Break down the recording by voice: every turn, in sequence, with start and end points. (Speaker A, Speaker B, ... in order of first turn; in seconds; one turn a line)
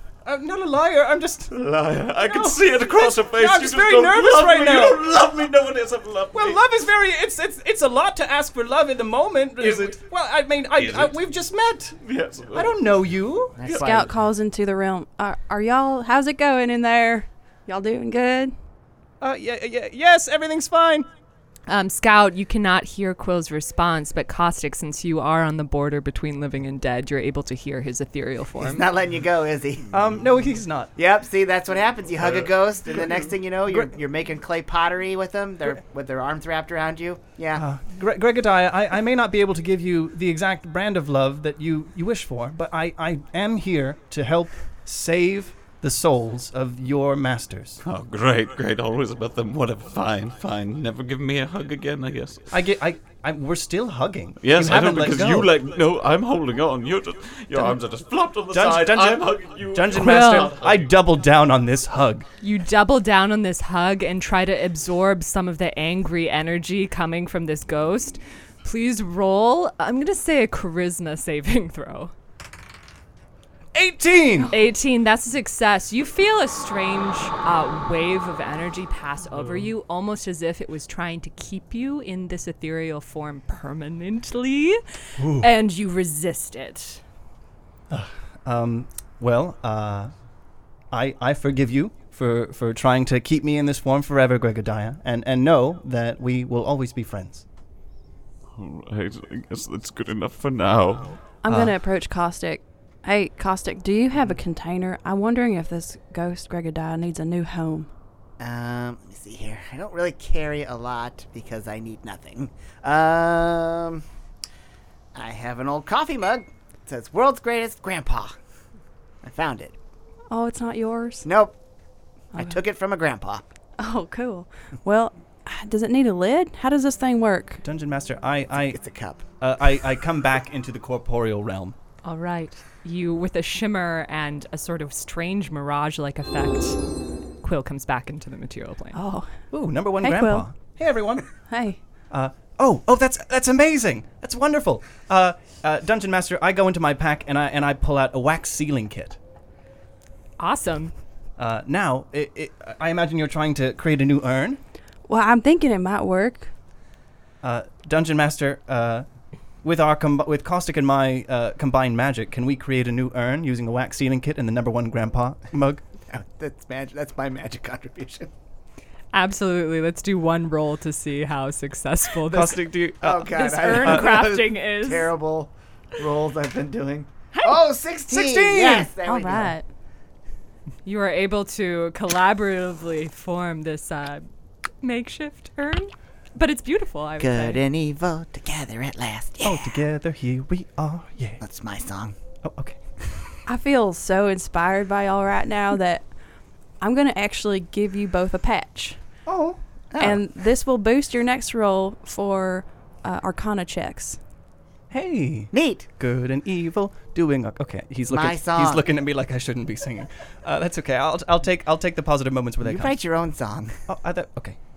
Speaker A: 0.2-1.6
Speaker B: 1.5-6.6
Speaker A: 2.2-5.1
Speaker A: 6.3-12.0
Speaker B: 9.6-10.0
Speaker B: 10.8-11.1
Speaker B: 12.0-12.8
Speaker A: 12.5-13.6
Speaker C: 13.6-14.2
Speaker D: 13.8-18.5
Speaker A: 19.2-21.1
Speaker E: 21.7-28.9
Speaker C: 28.6-29.9
Speaker A: 29.9-30.9
Speaker C: 30.9-37.6
Speaker A: 32.2-33.9
Speaker A: 37.6-47.8
Speaker B: 47.8-52.5
Speaker A: 52.5-55.5
Speaker B: 54.4-60.9
Speaker A: 58.5-62.3
Speaker E: 60.0-60.5
Speaker E: 62.4-72.1
Speaker A: 73.7-74.5
Speaker E: 74.5-84.8
Speaker A: 85.2-85.5
Speaker E: 85.3-87.0
Speaker A: 87.9-90.1
Speaker A: 90.9-97.5
Speaker B: 98.5-101.2
Speaker D: 101.4-107.9
Speaker A: 101.5-101.8
Speaker C: 108.4-114.0
Speaker C: 115.1-118.4
Speaker C: 119.2-119.7
Speaker D: 120.3-121.3
Speaker C: 121.2-121.6
Speaker C: 122.3-123.5
Speaker D: 123.8-127.6
Speaker A: 127.6-128.8
Speaker C: 128.6-129.2
Speaker A: 129.4-131.8
Speaker E: 132.0-136.8
Speaker E: 137.4-139.0
Speaker D: 138.9-139.4
Speaker A: 139.5-141.3
Speaker D: 140.0-140.5
Speaker D: 141.5-141.8
Speaker A: 142.1-149.2
Speaker E: 150.4-150.9
Speaker A: 151.4-154.6
Speaker D: 155.1-156.5
Speaker A: 157.4-159.1
Speaker A: 159.6-165.8
Speaker C: 166.1-168.3
Speaker E: 169.1-172.6
Speaker A: 172.3-174.2
Speaker C: 173.0-179.5
Speaker E: 173.3-175.1
Speaker A: 178.1-178.9
Speaker D: 179.1-179.6
Speaker E: 180.8-184.3
Speaker E: 184.8-187.6
Speaker C: 187.2-189.8
Speaker A: 189.4-191.4
Speaker C: 191.4-192.2
Speaker A: 192.4-193.3
Speaker D: 193.4-196.1
Speaker D: 196.8-199.0
Speaker C: 199.3-200.2
Speaker D: 200.0-204.2
Speaker A: 204.9-212.9
Speaker C: 205.5-205.9
Speaker C: 208.1-208.8
Speaker C: 212.6-213.8
Speaker A: 213.9-214.6